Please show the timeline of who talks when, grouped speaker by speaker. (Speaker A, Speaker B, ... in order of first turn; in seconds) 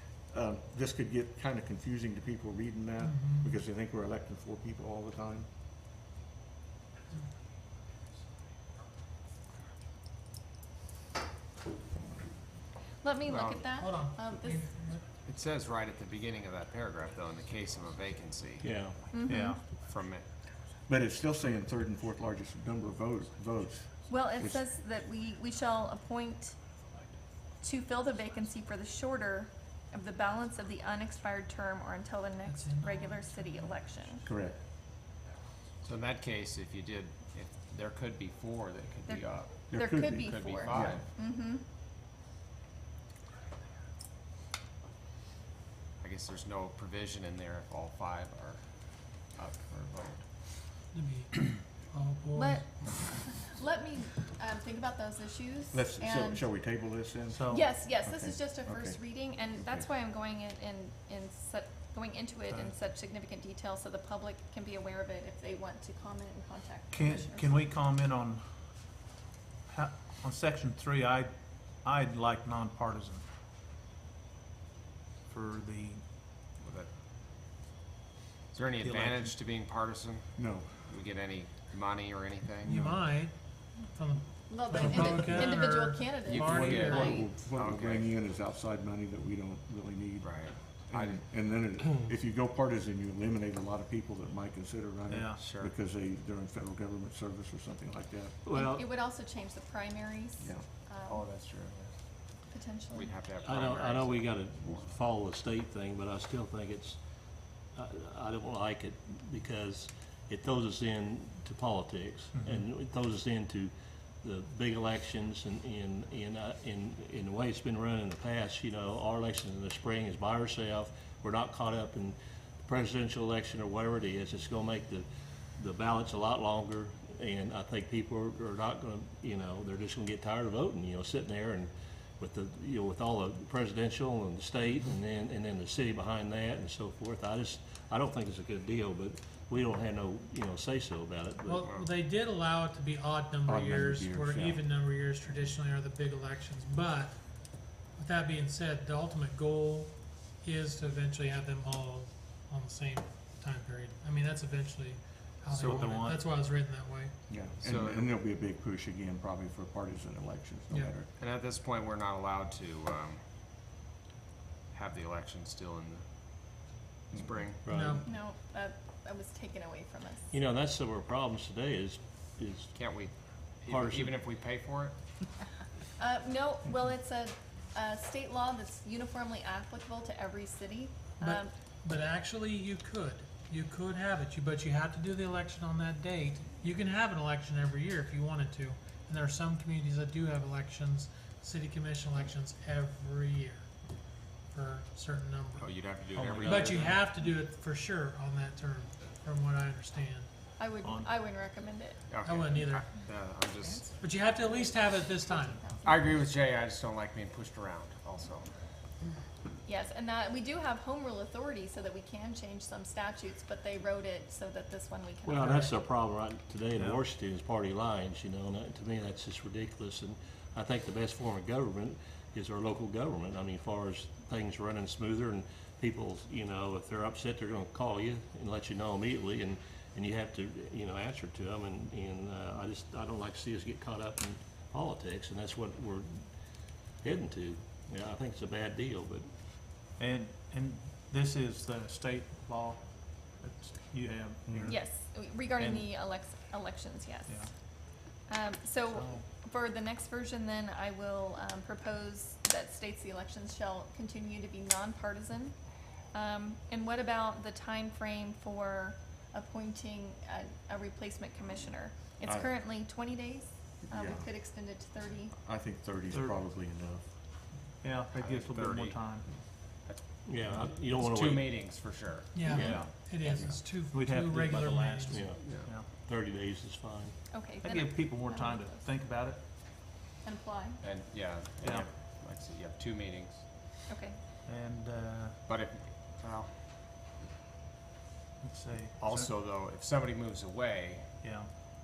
Speaker A: 0.3-5.5, 20.9-23.9, 34.2-34.6, 39.7-41.0, 55.7-59.0, 59.6-59.9, 80.3-80.8, 86.3-98.4, 100.4-100.7, 143.4-144.6, 157.3-161.1, 244.4-244.8, 262.2-262.5, 263.9-264.3, 265.4-267.0, 272.6-273.6
Speaker B: 3.0-3.5, 13.7-15.1, 32.4-33.8, 50.9-52.7, 82.6-87.2, 141.4-157.2, 160.7-160.9, 167.7-168.1, 181.2-193.9, 194.4-200.3, 202.2-202.9, 203.9-205.7, 272.3-275.3
Speaker C: 13.0-14.7, 19.1-19.6, 24.1-26.6, 27.6-34.2, 39.0-41.6, 52.3-56.5, 57.5-67.5, 84.5-87.4, 98.5-101.2, 102.5-103.1, 168.0-170.3, 176.0-181.5, 200.6-202.0, 203.6-206.2, 209.7-215.8, 244.7-265.3, 272.4-273.6, 277.3-278.9, 280.2-280.8, 283.9-284.2
Speaker D: 13.3-13.7, 15.2-18.7, 19.7-20.2, 35.8-39.5, 40.2-41.0, 46.0-50.2, 76.6-76.9, 78.5-82.9, 86.6-88.1, 90.2-91.2, 95.4-95.7, 101.0-102.0, 102.9-105.0, 141.6-141.9, 155.6-155.8, 157.6-158.1, 161.2-163.2, 164.7-166.0, 167.1-167.7, 172.7-175.0, 195.6-197.0, 202.1-203.9, 205.8-208.5, 268.1-269.0, 269.6-272.9, 275.4-275.7, 280.8-283.4, 285.4-286.6, 289.0-291.2
Speaker E: 18.6-19.1, 98.4-98.9, 103.4-107.0, 107.7-113.7, 114.2-141.7, 167.6-168.0, 170.3-172.8, 173.7-174.2, 215.2-236.2, 236.9-239.2, 270.2-271.9, 272.4-272.9, 275.1-277.1
Speaker F: 19.2-19.7, 57.3-57.7, 66.9-68.8, 69.7-73.2, 75.2-76.0, 78.8-79.3, 86.5-87.3, 95.1-95.5, 112.3-112.6, 155.5-156.2, 196.1-197.1, 200.8-201.2, 216.7-217.0, 240.0-245.9, 248.9-249.2, 266.1-266.5, 267.8-269.3, 273.8-275.9, 277.6-279.4, 281.6-281.9, 284.4-285.4, 288.4-289.3, 291.2-291.5